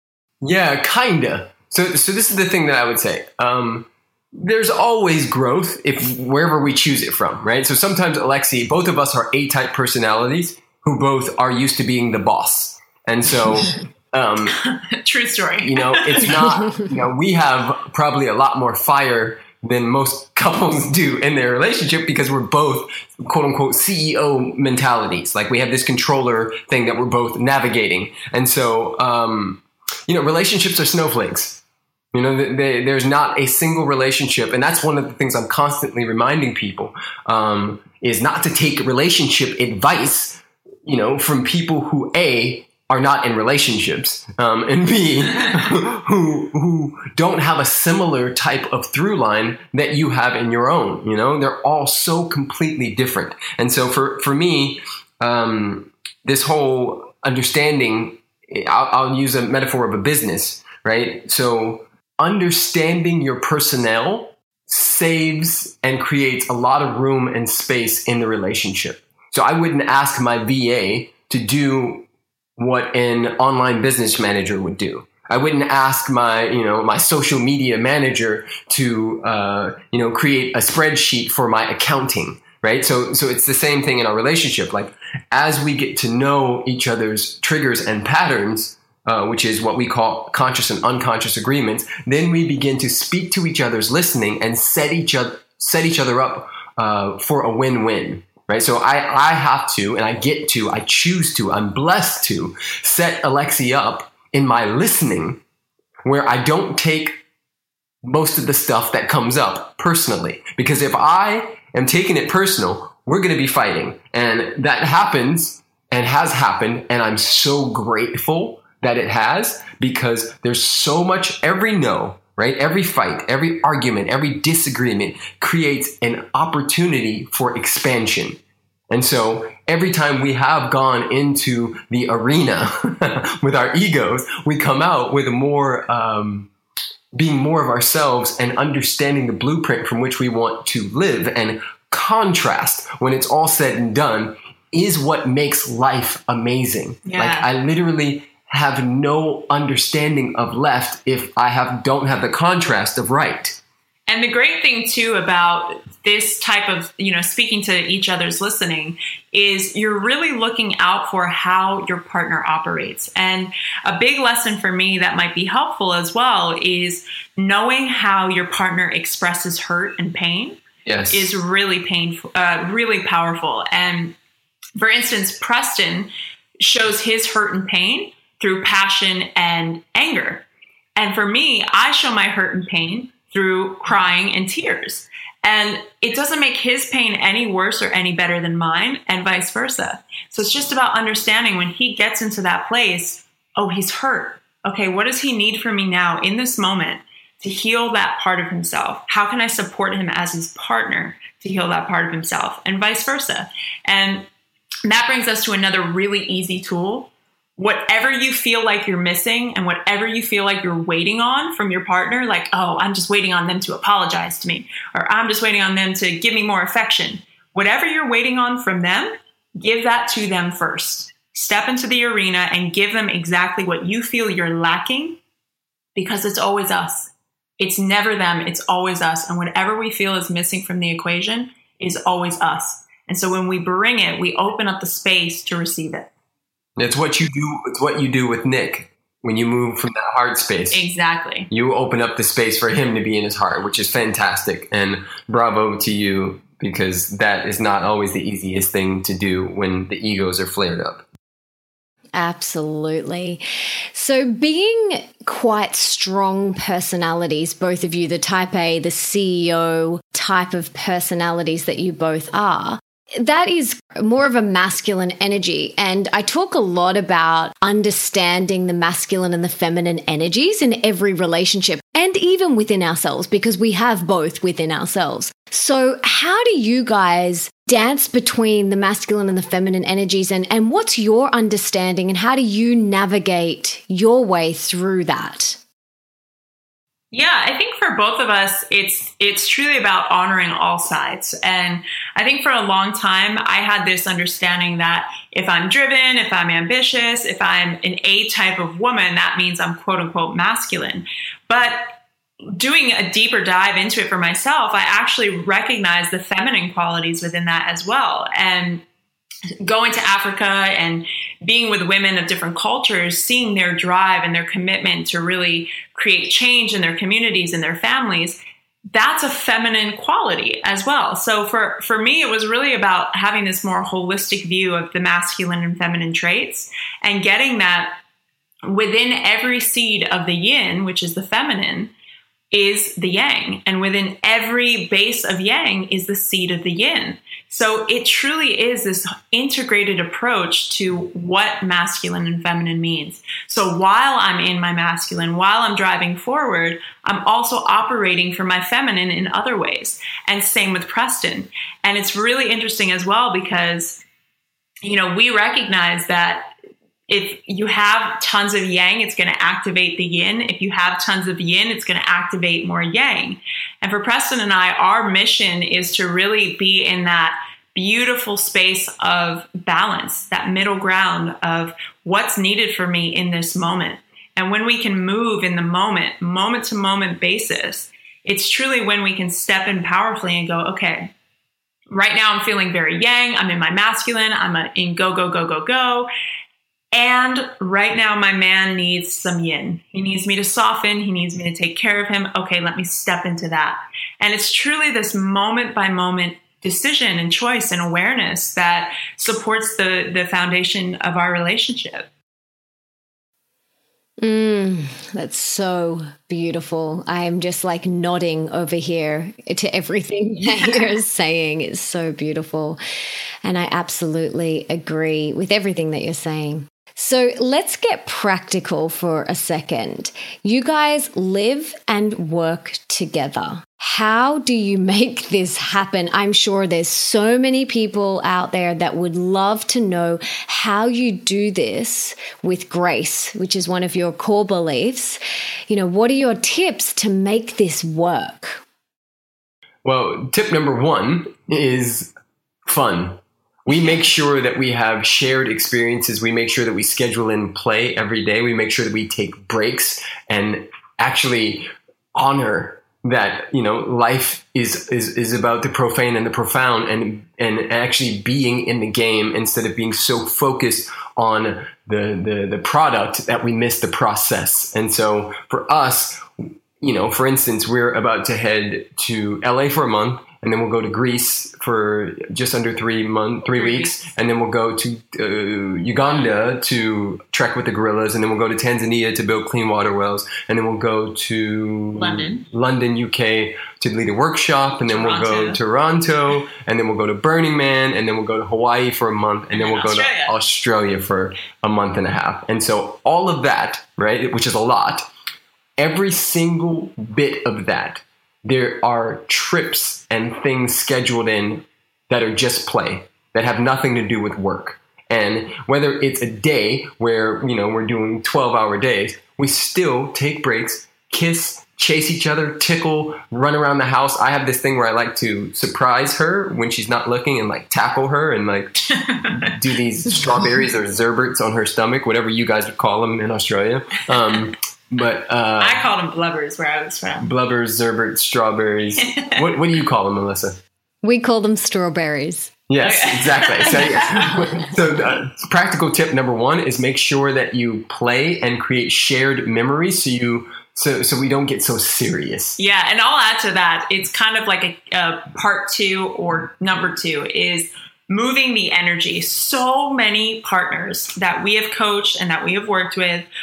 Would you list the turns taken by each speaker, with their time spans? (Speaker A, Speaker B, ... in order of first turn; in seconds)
Speaker A: 0.4-14.6, 15.6-31.6, 32.1-72.1, 72.6-105.4, 106.0-107.2, 108.0-128.4, 128.9-136.5, 137.1-153.6, 170.8-171.3, 236.8-240.8, 241.5-251.1, 439.8-442.1, 442.7-495.1, 495.8-518.8, 519.3-525.8, 527.2-530.6, 532.7-542.6
Speaker B: 14.6-16.4, 147.1-147.5, 154.1-174.2, 174.8-176.1, 176.6-180.4, 181.0-204.3, 204.9-225.2, 225.9-236.1, 240.7-241.5, 287.1-302.0, 302.6-308.8, 309.6-318.4, 318.9-328.0, 328.6-331.9, 332.5-354.0, 354.9-356.5, 357.1-381.1, 381.9-386.1, 386.9-402.1, 473.5-474.0, 482.0-482.5, 484.9-485.6, 489.5-490.4, 518.9-519.5, 525.6-527.3, 529.0-529.4, 532.8-534.4, 542.6-553.3
Speaker C: 252.2-253.4, 253.9-285.6, 404.2-412.8, 413.4-438.6, 531.0-532.5